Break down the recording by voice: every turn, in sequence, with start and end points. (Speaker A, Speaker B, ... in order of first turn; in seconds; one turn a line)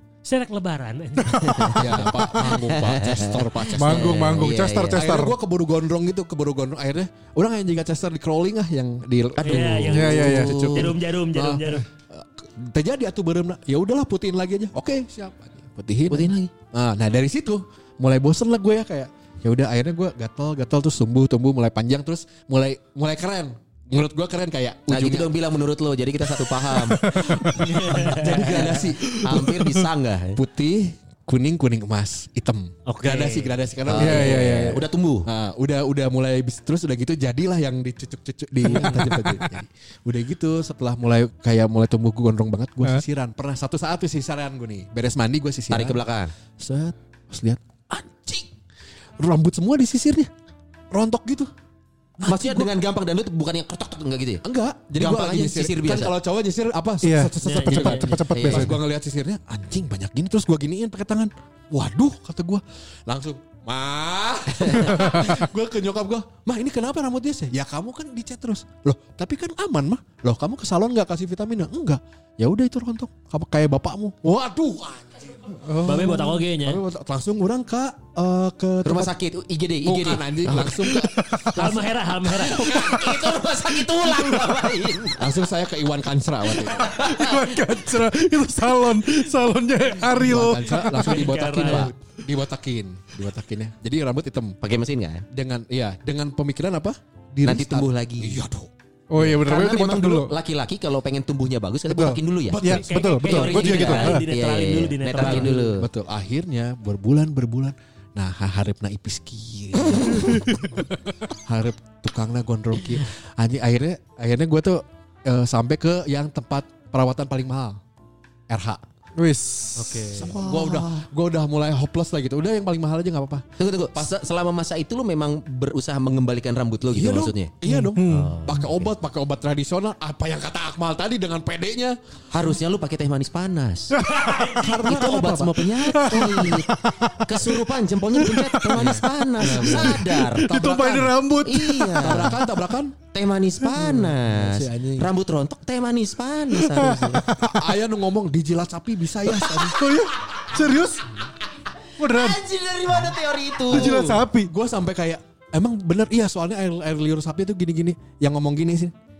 Speaker A: 0.2-2.1
Speaker B: 1.3-5.2
Speaker C: 1.7-4.3
Speaker D: 3.8-5.4
Speaker C: 4.9-25.3
Speaker A: 9.4-11.8
Speaker D: 9.8-10.9
Speaker B: 10.2-10.8
Speaker B: 16.1-16.5
Speaker B: 24.9-27.4
Speaker D: 26.8-28.0
Speaker C: 27.0-29.7
Speaker A: 27.6-28.7
Speaker B: 28.0-30.4
Speaker D: 29.0-29.8
Speaker C: 30.3-46.0
Speaker A: 32.9-33.6
Speaker B: 33.9-35.3
Speaker D: 33.9-34.8
Speaker D: 38.7-39.4
Speaker B: 38.7-39.1
Speaker B: 45.7-46.3
Speaker C: 46.6-48.5
Speaker C: 49.2-50.3
Speaker C: 50.9-51.5
Speaker C: 52.2-52.7
Speaker B: 52.2-54.4
Speaker C: 54.4-75.7
Speaker B: 55.0-56.1
Speaker D: 57.0-58.8
Speaker A: 57.4-58.3
Speaker B: 58.3-58.8
Speaker B: 64.6-64.9
Speaker D: 64.9-65.3
Speaker D: 75.6-76.4
Speaker A: 75.8-76.8
Speaker C: 76.6-79.1
Speaker B: 78.8-81.1
Speaker C: 79.8-83.3
Speaker D: 81.0-81.8
Speaker A: 81.5-82.7
Speaker B: 82.3-85.3
Speaker D: 82.8-83.2
Speaker C: 85.2-87.0
Speaker B: 86.6-87.4
Speaker D: 86.8-91.8
Speaker C: 90.0-94.6
Speaker A: 90.9-91.9
Speaker B: 94.6-95.2
Speaker C: 95.3-98.7
Speaker B: 97.4-98.4
Speaker D: 99.1-100.3
Speaker B: 99.2-102.6
Speaker D: 101.9-104.2
Speaker C: 102.5-103.9
Speaker A: 102.6-105.7
Speaker B: 103.2-105.9
Speaker C: 105.2-110.8
Speaker D: 110.1-110.6
Speaker C: 111.5-117.8
Speaker C: 118.5-118.8
Speaker D: 119.2-120.1
Speaker A: 119.8-120.3
Speaker C: 120.1-124.1
Speaker B: 120.2-121.0
Speaker B: 123.6-127.5
Speaker C: 126.9-132.0
Speaker D: 127.6-128.4
Speaker B: 128.0-128.9
Speaker B: 132.3-134.0
Speaker D: 133.9-134.5
Speaker A: 134.0-135.0
Speaker C: 134.5-136.6
Speaker B: 134.8-140.5
Speaker D: 135.9-137.6
Speaker D: 138.1-142.4
Speaker C: 138.7-141.2
Speaker B: 141.4-142.4
Speaker C: 142.0-143.0
Speaker B: 143.1-147.3
Speaker C: 143.6-145.1
Speaker D: 146.6-147.7
Speaker C: 147.5-150.0
Speaker D: 149.2-151.1
Speaker D: 152.0-152.4
Speaker B: 152.0-154.2
Speaker D: 153.7-154.5
Speaker C: 153.7-158.9